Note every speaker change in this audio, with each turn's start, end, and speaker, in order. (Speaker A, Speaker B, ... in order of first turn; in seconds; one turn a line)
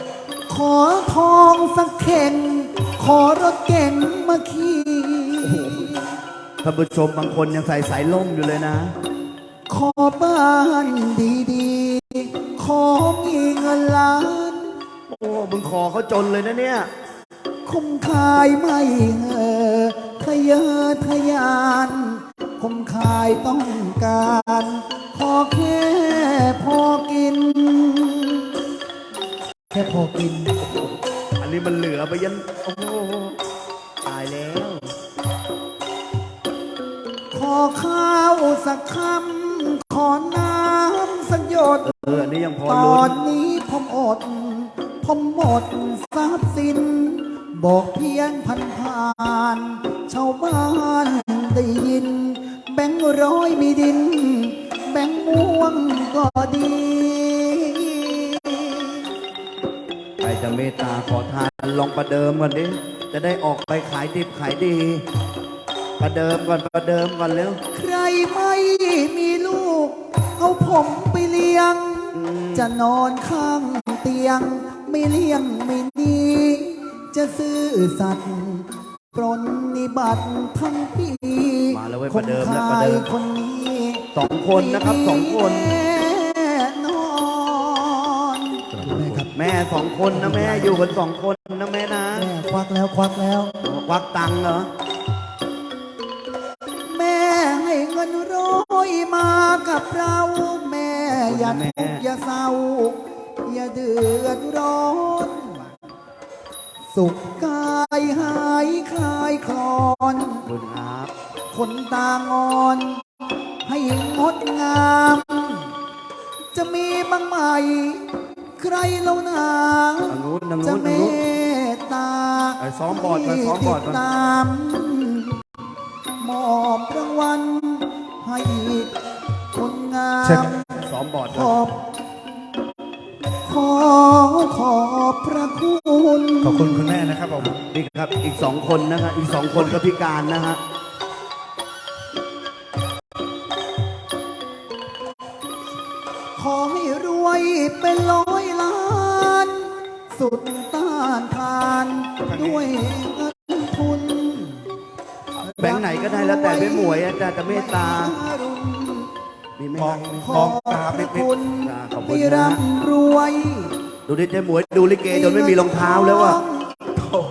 Speaker A: 0.5-6.1
Speaker B: 5.4-6.0
Speaker B: 6.6-8.9
Speaker A: 9.7-14.7
Speaker B: 15.1-16.9
Speaker A: 17.6-28.5
Speaker A: 29.7-30.6
Speaker B: 30.6-33.4
Speaker B: 34.0-35.0
Speaker A: 37.3-59.1
Speaker B: 41.8-43.1
Speaker B: 60.2-65.0
Speaker B: 66.0-67.6
Speaker A: 67.7-89.3
Speaker B: 72.1-72.7
Speaker B: 81.7-83.1
Speaker B: 84.2-85.8
Speaker C: 88.7-89.3
Speaker B: 89.3-92.3
Speaker A: 90.1-91.0
Speaker A: 92.1-93.6
Speaker B: 93.6-94.7
Speaker A: 96.8-105.7
Speaker B: 101.1-102.1
Speaker A: 106.9-110.4
Speaker B: 110.5-111.1
Speaker A: 111.5-113.0
Speaker A: 113.6-115.7
Speaker A: 116.5-125.4
Speaker B: 120.1-121.2
Speaker B: 122.6-124.0
Speaker A: 126.2-128.9
Speaker A: 129.5-130.6
Speaker C: 130.2-130.5
Speaker B: 130.6-131.6
Speaker A: 131.3-131.8
Speaker A: 133.4-137.1
Speaker C: 136.4-137.6
Speaker B: 137.4-140.6
Speaker A: 146.4-154.7
Speaker C: 152.2-152.7
Speaker A: 155.4-159.1
Speaker B: 155.6-158.2
Speaker B: 159.6-160.5
Speaker C: 159.8-161.3
Speaker A: 160.2-163.8
Speaker B: 161.6-162.6
Speaker B: 164.1-166.4
Speaker A: 165.1-166.9